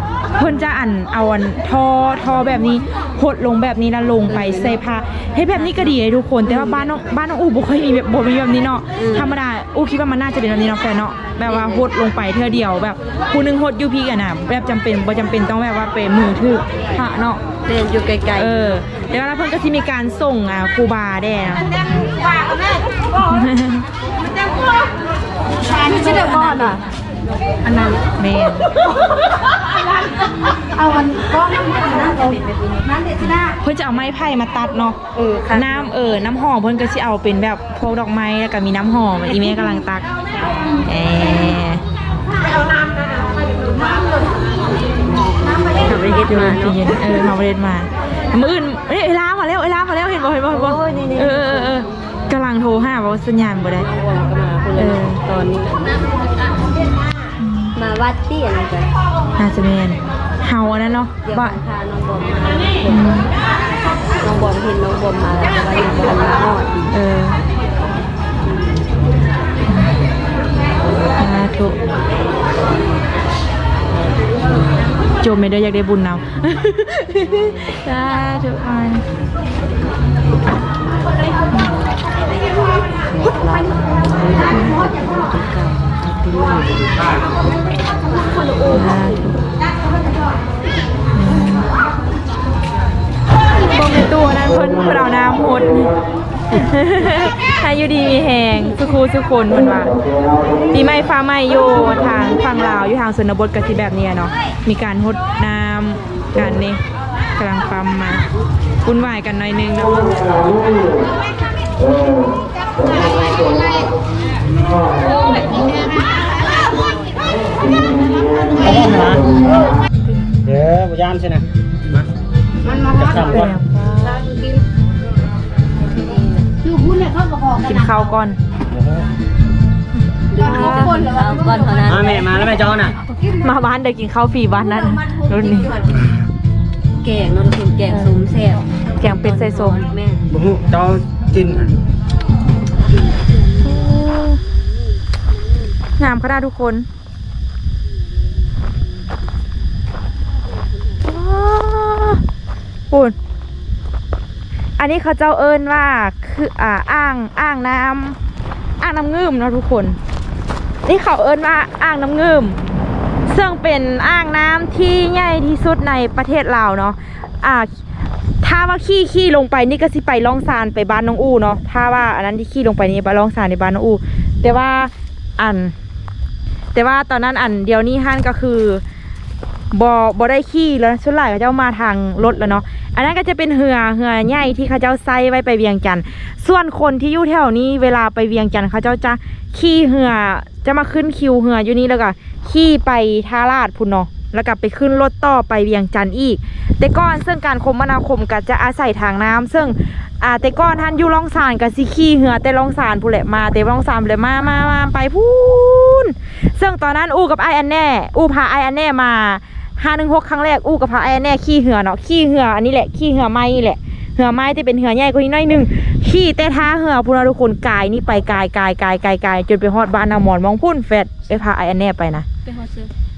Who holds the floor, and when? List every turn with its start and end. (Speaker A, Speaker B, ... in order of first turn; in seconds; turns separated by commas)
Speaker A: 0.4-17.4, Speaker B: 4.3-4.6, Speaker C: 8.9-9.3, Speaker C: 11.4-11.9, Speaker C: 17.6-18.8, Speaker A: 18.4-21.7, Speaker B: 21.8-22.6, Speaker A: 23.3-23.9, Speaker B: 25.6-26.9, Speaker B: 27.6-28.0, Speaker A: 28.2-28.7, Speaker B: 30.6-33.4, Speaker A: 33.2-35.0, Speaker C: 35.1-35.6, Speaker A: 35.5-40.1, Speaker A: 40.9-41.8, Speaker B: 43.6-44.0, Speaker C: 45.4-47.0, Speaker A: 45.9-53.9, Speaker C: 50.5-51.8, Speaker C: 53.8-56.6, Speaker A: 54.8-55.2, Speaker A: 57.4-57.8, Speaker C: 57.8-58.9, Speaker A: 59.4-61.6, Speaker C: 61.2-63.1, Speaker A: 62.8-63.3, Speaker C: 64.2-66.9, Speaker A: 66.9-67.4, Speaker A: 69.7-69.9, Speaker A: 71.2-71.8, Speaker A: 75.2-79.0, Speaker C: 83.1-87.1, Speaker A: 84.5-84.8, Speaker C: 88.1-89.1, Speaker A: 88.7-89.5, Speaker A: 91.1-91.7, Speaker A: 93.6-96.0, Speaker A: 96.5-100.0, Speaker A: 100.7-106.8, Speaker A: 107.4-108.3, Speaker A: 108.8-110.8, Speaker B: 112.8-113.9, Speaker B: 115.4-116.2, Speaker D: 118.6-119.3, Speaker A: 119.9-120.6, Speaker D: 120.6-121.4, Speaker B: 122.6-123.4, Speaker A: 123.3-124.1, Speaker B: 124.0-124.6, Speaker C: 125.9-126.5, Speaker B: 126.6-128.1, Speaker A: 127.6-128.4, Speaker C: 130.3-132.6, Speaker B: 130.3-131.9, Speaker A: 130.6-130.8, Speaker D: 132.0-132.9, Speaker B: 133.0-133.3, Speaker A: 133.3-135.7, Speaker C: 134.6-136.0, Speaker C: 136.9-140.3, Speaker A: 139.0-139.8, Speaker D: 140.5-141.7, Speaker C: 143.3-145.8, Speaker A: 143.6-144.4, Speaker A: 146.0-146.9, Speaker C: 150.7-151.1, Speaker A: 151.0-152.2, Speaker A: 154.8-158.2, Speaker A: 158.8-160.0, Speaker A: 160.8-162.6, Speaker A: 163.3-167.7, Speaker A: 168.4-175.7, Speaker A: 176.8-178.8, Speaker A: 179.7-222.2, Speaker C: 222.4-222.9